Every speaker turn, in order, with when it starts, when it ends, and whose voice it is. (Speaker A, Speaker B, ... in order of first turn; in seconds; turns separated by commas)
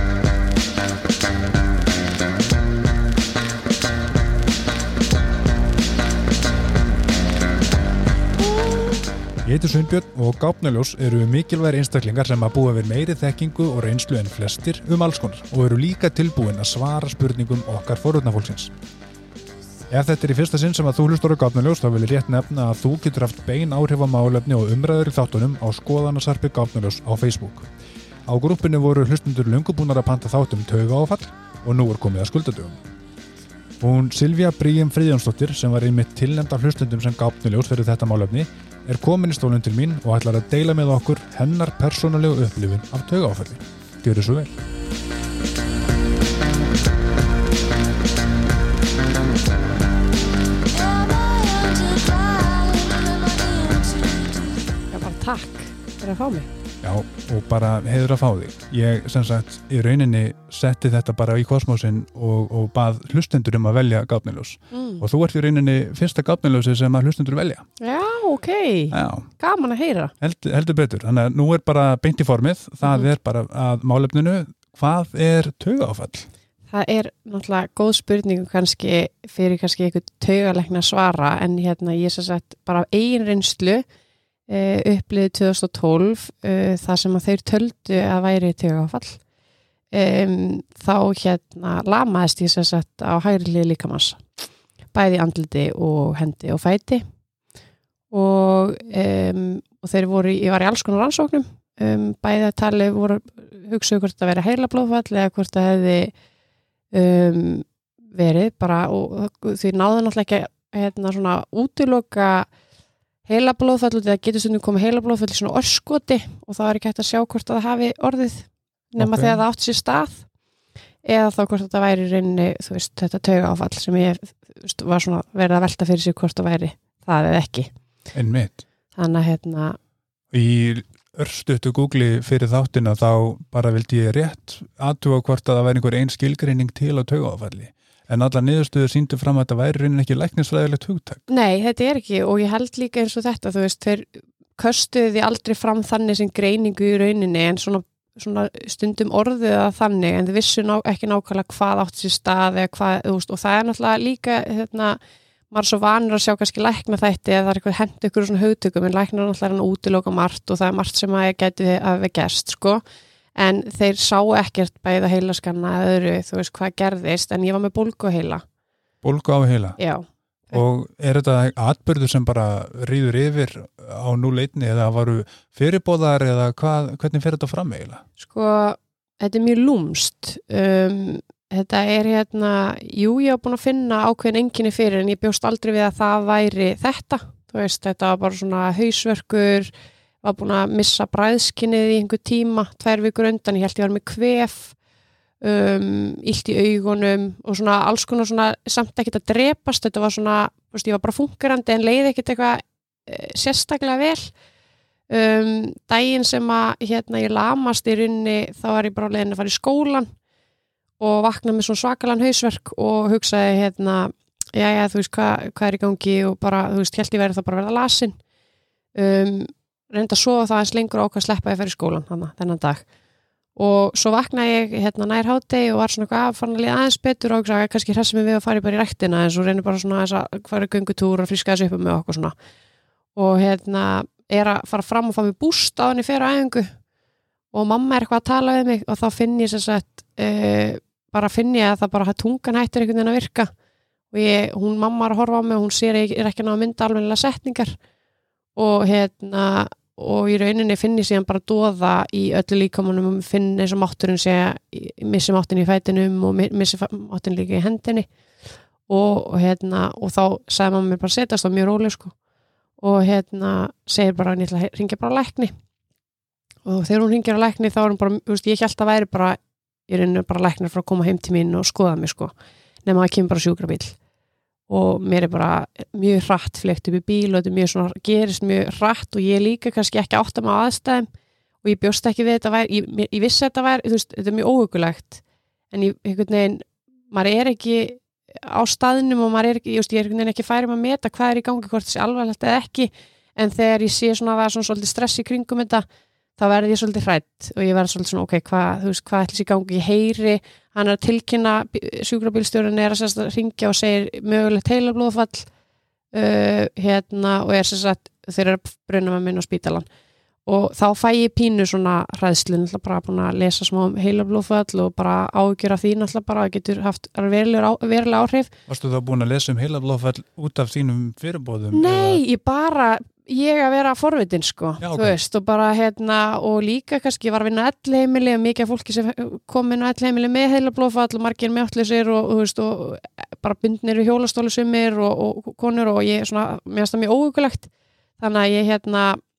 Speaker A: 9.4-18.7, Speaker A: 19.9-27.7, Speaker A: 28.3-32.8, Speaker A: 33.8-44.6, Speaker B: 51.4-52.7, Speaker B: 54.9-56.5, Speaker A: 56.8-67.7, Speaker B: 64.7-65.0, Speaker B: 67.8-70.1, Speaker A: 68.9-69.3, Speaker A: 70.2-76.3, Speaker B: 76.7-83.8, Speaker B: 84.5-89.2, Speaker B: 89.9-94.2, Speaker B: 94.9-97.0, Speaker B: 98.1-106.1, Speaker B: 106.9-112.5, Speaker B: 113.3-120.2, Speaker A: 119.0-119.4, Speaker B: 121.0-127.7, Speaker A: 128.1-128.6, Speaker B: 128.9-129.8, Speaker A: 130.3-141.2, Speaker B: 141.3-155.0, Speaker B: 155.5-162.8, Speaker B: 163.4-168.4, Speaker A: 169.0-169.8, Speaker B: 169.8-170.6, Speaker A: 170.5-178.0, Speaker B: 178.2-189.7, Speaker B: 190.2-194.8, Speaker B: 195.4-204.3, Speaker B: 205.1-210.1, Speaker B: 211.0-218.2, Speaker B: 218.9-222.8, Speaker B: 223.6-232.3, Speaker B: 233.2-236.8, Speaker B: 237.5-243.5, Speaker B: 244.1-247.8, Speaker B: 248.6-258.1, Speaker B: 258.9-262.1, Speaker B: 262.8-265.5, Speaker B: 266.6-272.3, Speaker B: 272.9-273.9, Speaker B: 274.7-281.1, Speaker B: 281.6-295.9, Speaker B: 296.4-305.5, Speaker B: 306.1-309.9, Speaker B: 310.5-318.5, Speaker A: 318.7-322.2, Speaker B: 321.7-337.7, Speaker A: 324.8-325.1, Speaker B: 338.2-339.2